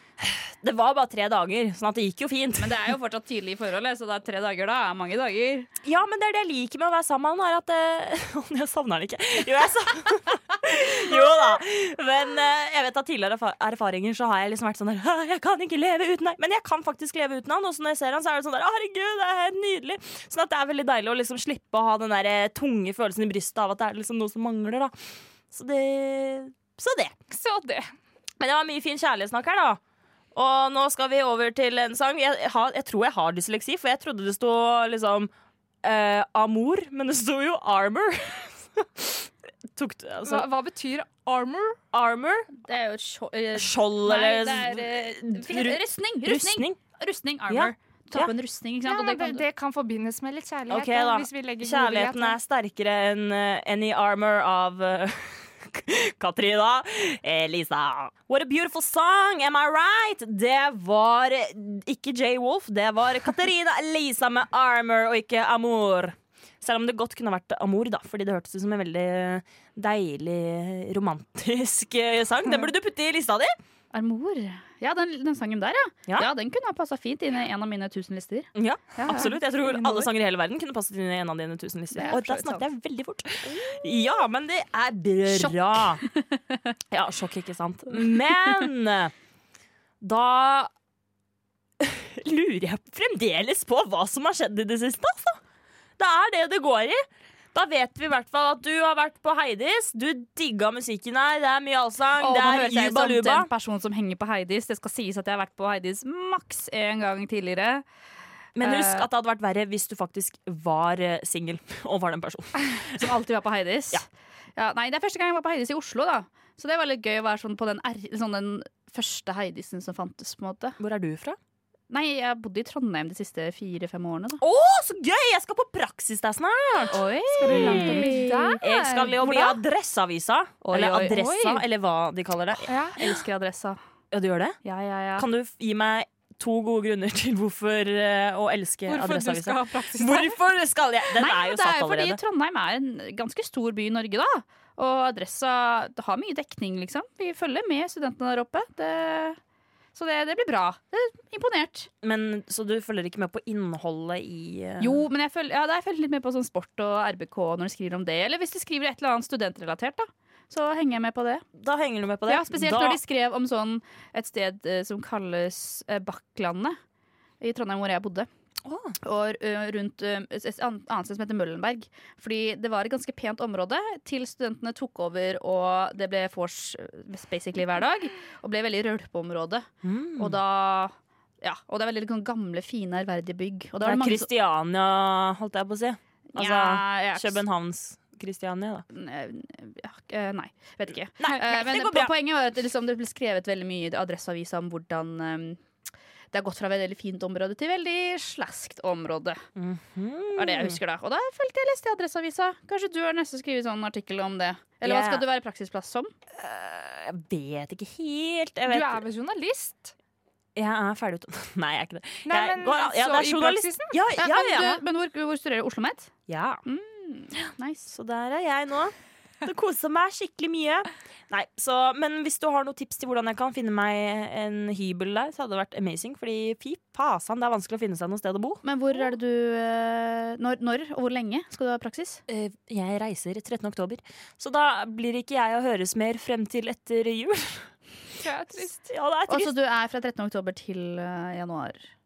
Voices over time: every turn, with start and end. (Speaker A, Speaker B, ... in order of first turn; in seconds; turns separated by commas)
Speaker A: 0.2-2.9, Speaker B: 2.6-5.7, Speaker A: 5.8-24.9, Speaker A: 25.5-27.1, Speaker C: 27.3-27.9, Speaker A: 28.4-29.8, Speaker A: 30.4-35.3, Speaker A: 35.8-40.5, Speaker C: 40.2-41.8, Speaker A: 41.9-42.5, Speaker B: 42.6-49.4, Speaker A: 43.5-46.8, Speaker A: 47.5-48.3, Speaker C: 48.9-52.4, Speaker A: 50.7-73.5, Speaker B: 73.9-79.4, Speaker A: 78.5-86.0, Speaker B: 81.9-82.7, Speaker B: 85.3-86.6, Speaker A: 86.9-89.1, Speaker A: 90.0-90.7, Speaker A: 91.8-95.4, Speaker A: 96.0-103.5, Speaker B: 102.2-107.8, Speaker A: 108.6-113.1, Speaker B: 108.6-109.1, Speaker B: 112.9-114.0, Speaker B: 114.6-120.8, Speaker A: 120.8-121.4, Speaker B: 121.9-124.4, Speaker A: 124.4-133.1, Speaker B: 126.9-128.6, Speaker C: 127.4-129.5, Speaker B: 130.6-131.6, Speaker C: 132.7-133.0, Speaker B: 132.9-133.8, Speaker A: 134.1-134.6, Speaker B: 134.6-135.3, Speaker A: 135.2-142.2, Speaker C: 138.9-140.3, Speaker B: 141.1-149.4, Speaker B: 149.9-151.9, Speaker A: 152.0-155.0, Speaker B: 154.8-161.4, Speaker A: 161.6-163.0, Speaker B: 162.3-166.8, Speaker B: 167.4-168.3, Speaker A: 168.6-168.9, Speaker B: 169.0-184.3, Speaker A: 179.8-180.4, Speaker A: 183.8-188.8, Speaker B: 186.3-187.4, Speaker B: 188.9-195.6, Speaker A: 191.2-192.1, Speaker B: 196.3-199.4, Speaker A: 199.6-200.8, Speaker B: 200.4-206.1, Speaker A: 204.8-205.2, Speaker A: 206.3-209.0, Speaker C: 208.7-209.9, Speaker A: 210.5-214.7, Speaker C: 212.2-214.0, Speaker B: 214.2-216.1, Speaker C: 214.5-214.8, Speaker A: 216.3-216.6, Speaker B: 216.6-217.9, Speaker A: 217.9-228.6, Speaker B: 228.6-232.2, Speaker A: 232.3-237.7, Speaker C: 238.2-238.8, Speaker A: 238.9-239.5, Speaker B: 239.3-241.8